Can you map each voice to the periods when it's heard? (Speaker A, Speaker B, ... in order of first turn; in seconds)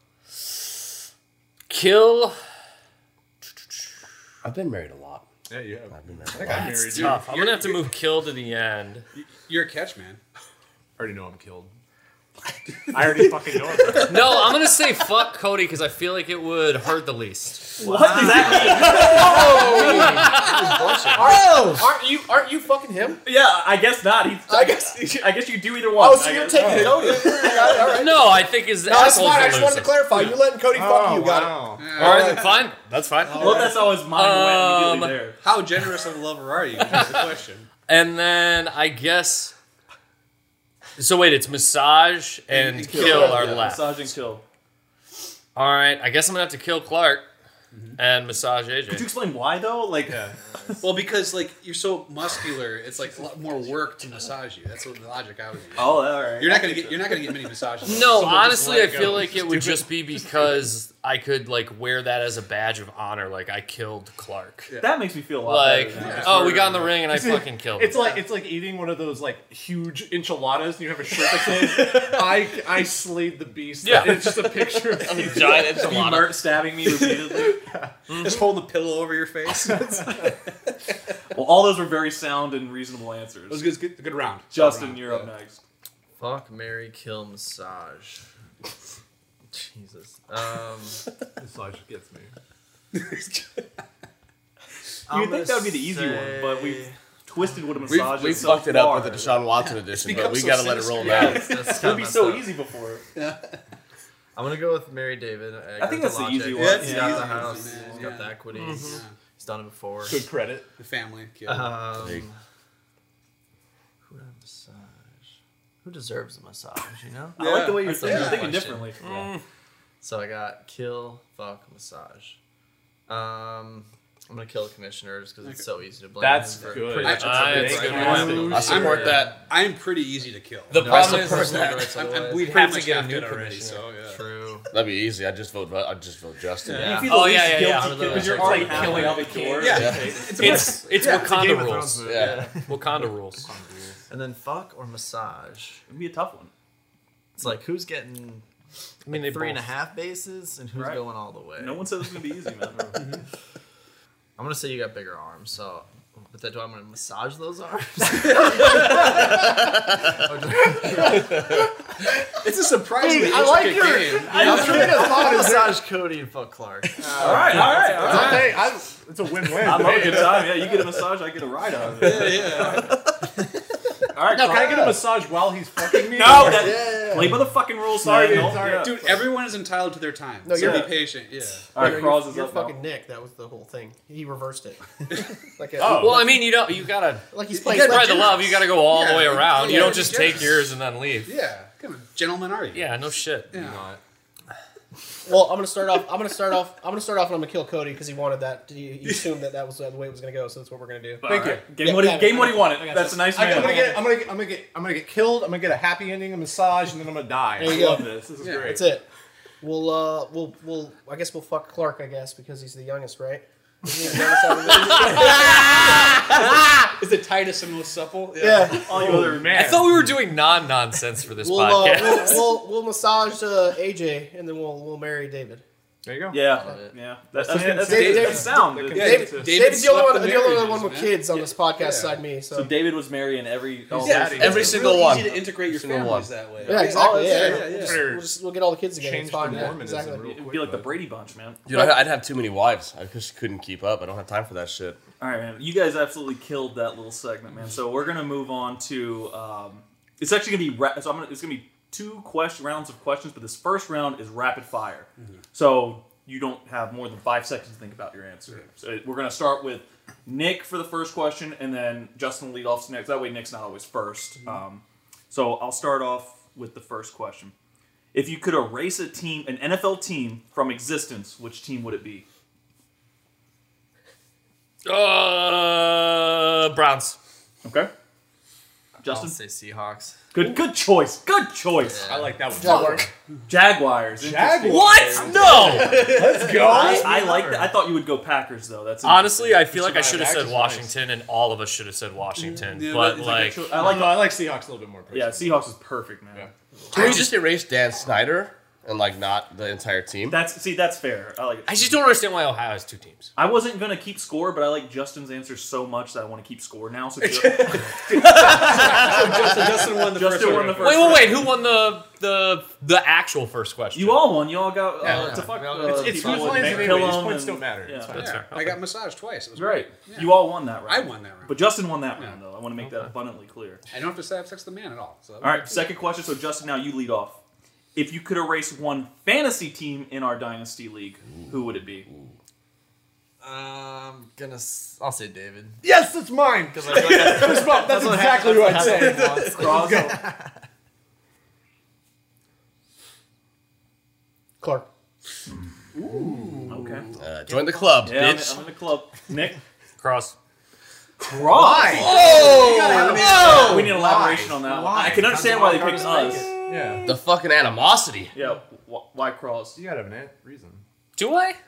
Speaker A: 1.7-2.4, 6.4-9.0, 14.0-17.9, 19.8-21.0, 27.9-30.0, 31.9-35.1, 36.9-37.2, 37.9-39.5, 41.0-44.1, 45.5-47.2, 48.0-49.1, 57.8-64.7, 65.4-68.2, 73.8-76.0, 78.1-78.6, 108.6-108.9, 119.0-119.4, 127.2-129.1, 130.7-131.8, 132.5-133.2, 137.1-139.5, 140.4-142.1, 142.7-143.5, 149.1-149.7, 185.9-191.3, 192.7-193.5, 219.5-222.5, 274.8-277.2, 284.7-286.1, 289.0-293.7, 296.9-297.4, 301.7-303.3, 308.1-309.5, 310.8-314.4, 315.1-315.4, 318.1-318.8, 350.0-350.3, 352.2-352.6, 353.5-353.9, 361.1-361.6
Speaker B: 4.4-5.2, 5.9-6.9, 74.9-76.3, 98.1-101.5, 112.0-112.2, 128.5-129.3, 130.9-131.5, 134.7-137.0, 142.1-142.5, 234.2-236.3, 241.7-245.0, 296.9-300.4, 347.2-348.6, 352.2-353.1, 357.0-358.3
Speaker C: 5.5-7.3, 11.0-11.7, 12.9-14.3, 19.3-21.1, 26.6-27.8, 30.7-32.3, 50.1-50.4, 58.0-60.0, 66.0-75.7, 77.7-77.9, 79.7-80.3, 91.4-92.3, 110.0-110.7, 126.2-128.7, 138.3-140.0, 140.6-144.0, 152.7-153.0, 160.7-161.3, 163.1-165.8, 167.0-170.6, 174.3-177.1, 177.9-179.3, 185.8-186.4, 193.5-194.0, 201.2-201.7, 202.8-208.8, 218.9-220.1, 226.0-226.6, 227.3-229.5, 233.9-234.9, 236.6-238.2, 239.0-241.0, 282.1-283.1, 284.1-287.1, 289.6-290.9, 293.7-295.7, 315.1-318.2, 335.8-340.2, 351.3-357.1, 359.8-360.8
Speaker D: 7.0-7.9, 9.1-10.2, 12.9-14.0, 17.8-21.3, 26.7-28.1, 31.8-32.7, 33.3-33.8, 35.4-37.7, 42.5-43.7, 47.7-48.0, 50.8-59.0, 65.9-66.7, 76.8-80.4, 83.5-85.3, 92.9-93.6, 97.9-98.5, 99.6-101.3, 103.1-103.6, 106.5-109.1, 110.8-112.0, 117.4-118.5, 126.9-134.2, 136.7-137.1, 139.4-141.5, 152.9-153.2, 162.4-165.3, 172.0-172.9, 178.0-181.7, 187.6-190.7, 191.2-192.9, 193.5-193.9, 203.5-203.8, 208.4-208.7, 215.3-215.8, 216.9-219.2, 227.8-232.2, 234.0-238.1, 285.1-286.8, 292.4-294.2, 307.2-311.5, 318.1-322.4, 323.9-325.8, 336.9-337.8, 338.9-339.4, 346.0-347.1, 351.9-353.9
Speaker E: 17.8-19.7, 23.2-27.2, 33.3-35.4, 42.8-44.4, 48.9-50.2, 55.8-57.2, 64.8-66.9, 75.5-77.6, 81.3-83.7, 84.5-85.6, 95.1-99.3, 101.0-103.0, 105.8-108.1, 117.4-119.2, 127.9-128.3, 136.8-140.6, 145.9-146.5, 150.7-151.0, 151.6-152.9, 164.1-165.1, 167.2-168.6, 169.6-172.8, 174.1-174.9, 176.1-179.0, 181.7-182.7, 201.2-203.9, 207.6-208.3, 218.7-219.7, 226.3-229.3, 232.5-235.3, 240.3-241.6, 245.2-267.5, 268.1-272.2, 277.6-277.9, 279.0-279.4, 280.3-282.1, 283.5-285.9, 286.6-289.6, 293.1-294.4, 295.1-296.5, 300.3-301.9, 303.4-311.4, 313.9-318.3, 319.6-323.8, 325.4-327.4, 327.9-332.1, 339.4-340.2, 346.7-347.1, 348.0-349.6, 351.2-352.1, 353.4-356.6, 358.3-359.8
Speaker F: 17.9-18.9, 86.2-88.2, 89.5-91.0, 95.1-96.9, 101.0-102.5, 104.3-110.3, 111.4-112.4, 114.0-115.2, 115.8-118.9, 120.0-122.4, 123.1-129.3, 130.7-132.9, 133.5-134.7, 136.7-139.9, 142.0-142.7, 144.1-145.8, 147.4-148.4, 149.1-151.9, 154.4-161.6, 164.1-168.5, 176.2-177.5, 226.4-226.9, 279.1-280.2, 281.8-282.9, 285.1-287.7, 315.0-317.3, 333.4-335.9, 336.7-340.5, 347.4-348.1, 355.0-356.5
Speaker G: 19.4-20.1, 21.1-23.2, 24.5-25.2, 25.9-28.0, 28.8-31.7, 33.4-33.7, 174.4-174.8, 180.4-181.0, 181.7-185.0, 185.6-186.4, 187.3-188.4, 189.6-190.3, 195.2-202.8, 203.4-203.9, 207.6-209.0, 209.6-216.1, 218.4-218.9, 221.4-225.6, 227.8-232.7, 236.7-240.3, 282.5-283.1, 344.6-344.9